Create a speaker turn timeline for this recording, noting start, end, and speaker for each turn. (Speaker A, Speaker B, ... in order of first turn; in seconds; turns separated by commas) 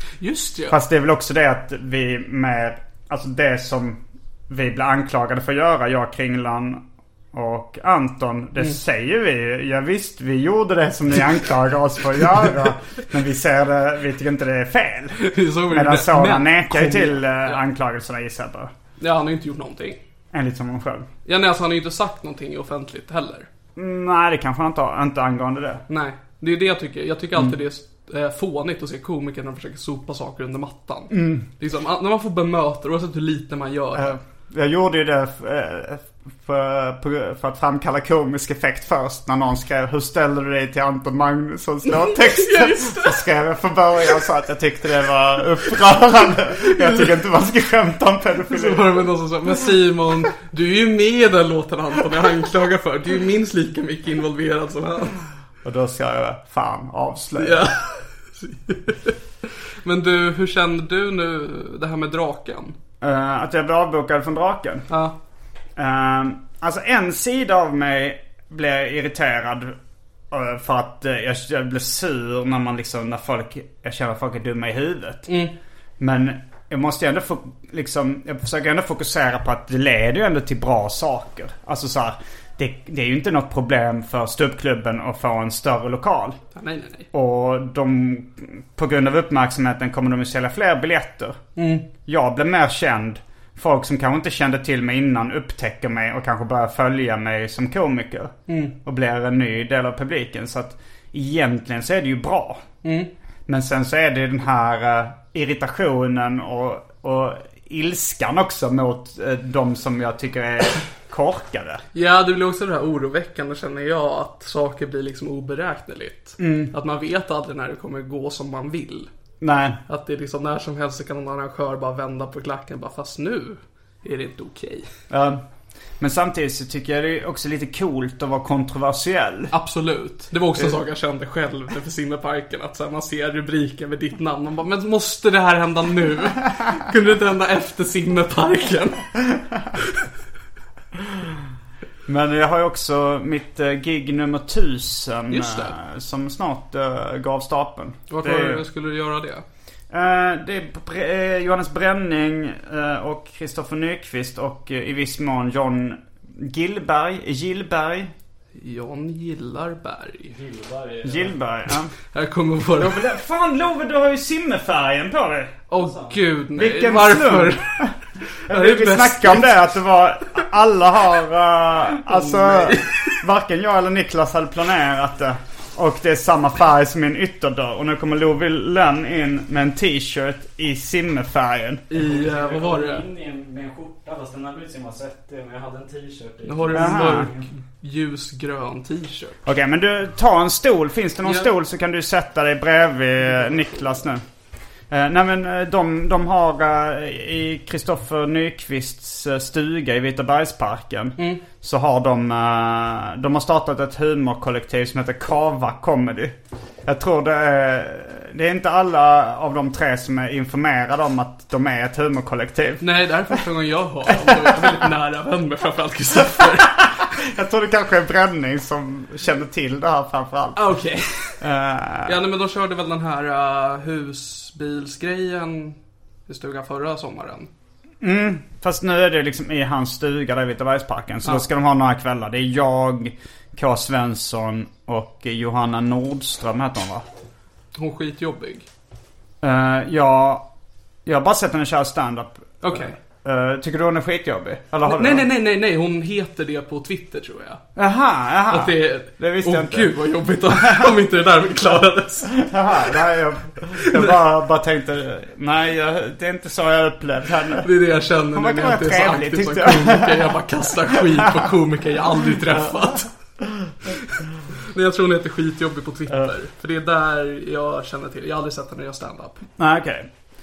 Speaker A: 0.2-0.8, Speaker B: 0.7-18.7, Speaker A: 15.2-17.6, Speaker A: 19.0-20.0, Speaker B: 20.3-21.1, Speaker A: 21.2-23.5, Speaker B: 23.8-25.8, Speaker A: 25.9-34.2, Speaker B: 31.1-31.4, Speaker B: 33.9-49.0, Speaker A: 41.9-43.2, Speaker A: 46.6-47.0, Speaker A: 48.5-55.2, Speaker B: 55.6-57.6, Speaker A: 57.4-59.1, Speaker A: 59.8-62.8, Speaker B: 63.0-64.9, Speaker A: 64.9-65.1, Speaker B: 65.8-69.8, Speaker B: 70.3-75.3, Speaker A: 75.3-75.5, Speaker B: 76.0-86.4, Speaker A: 86.5-87.1, Speaker B: 87.1-91.4, Speaker A: 91.5-91.9, Speaker B: 92.0-102.6, Speaker A: 98.5-98.7, Speaker A: 102.8-103.1, Speaker B: 103.5-111.8, Speaker A: 111.9-119.1, Speaker B: 116.4-116.7, Speaker B: 119.4-119.8, Speaker A: 119.9-124.9, Speaker B: 125.1-125.4, Speaker B: 126.0-129.5, Speaker A: 129.5-139.1, Speaker B: 140.9-141.4, Speaker B: 142.1-148.6, Speaker A: 145.3-145.8, Speaker A: 148.1-149.4, Speaker B: 149.9-158.1, Speaker A: 158.5-160.4, Speaker C: 160.3-161.4, Speaker B: 161.0-161.9, Speaker A: 162.1-163.0, Speaker B: 162.8-165.6, Speaker A: 165.7-167.8, Speaker C: 165.8-166.2, Speaker B: 166.5-181.9, Speaker A: 168.5-169.5, Speaker A: 172.1-173.2, Speaker A: 181.9-183.1, Speaker C: 181.9-187.5, Speaker A: 186.4-189.4, Speaker B: 186.7-187.3, Speaker B: 189.4-194.2, Speaker A: 191.2-191.5, Speaker B: 194.9-212.8, Speaker A: 201.2-201.4, Speaker A: 212.8-217.0, Speaker B: 214.2-214.7, Speaker B: 216.4-220.7, Speaker A: 220.6-221.4, Speaker B: 221.4-222.2, Speaker A: 222.0-227.5, Speaker B: 228.0-237.1, Speaker A: 237.7-238.7, Speaker B: 239.4-240.5, Speaker B: 241.0-245.3, Speaker A: 242.6-243.0, Speaker A: 244.8-247.6, Speaker B: 247.7-249.9, Speaker A: 248.5-252.4, Speaker B: 250.5-250.9, Speaker B: 252.3-257.7, Speaker A: 253.8-254.1, Speaker A: 257.6-263.1, Speaker B: 258.3-260.3, Speaker B: 263.4-263.7, Speaker A: 264.6-269.4, Speaker B: 269.6-270.1